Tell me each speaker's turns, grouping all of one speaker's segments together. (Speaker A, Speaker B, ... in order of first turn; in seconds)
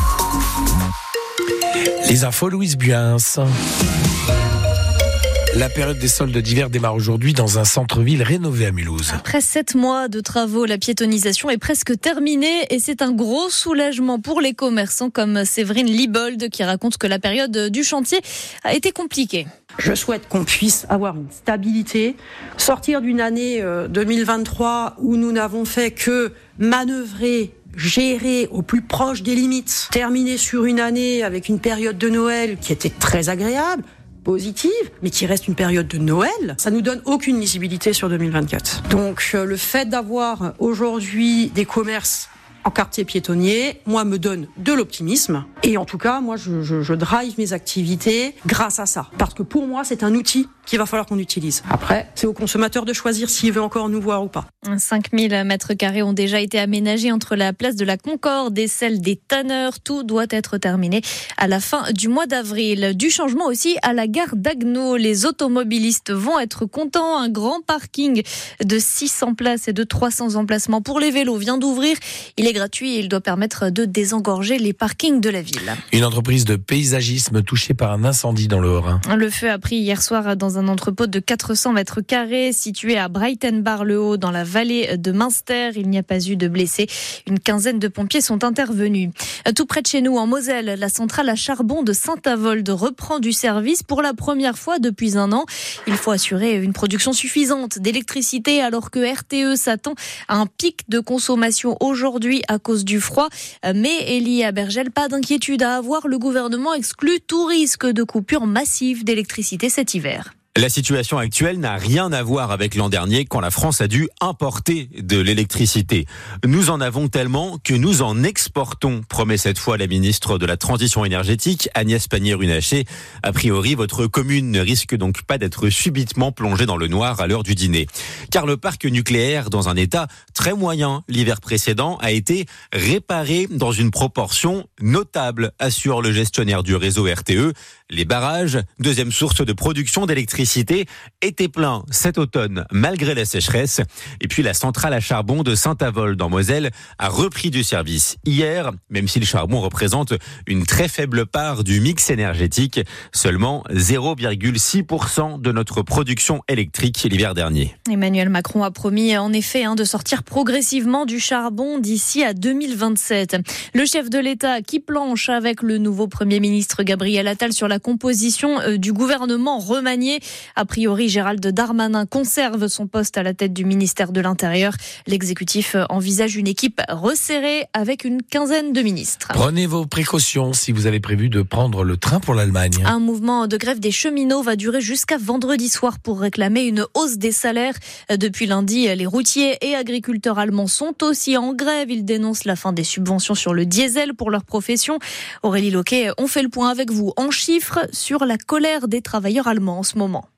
Speaker A: 2.0-3.5, 5.5-9.2, 75.9-79.0, 179.3-182.9
Speaker B: 9.1-19.4, 54.7-75.8, 79.1-110.3, 157.9-179.4, 182.8-200.2
Speaker C: 19.8-54.5
Speaker D: 110.5-157.7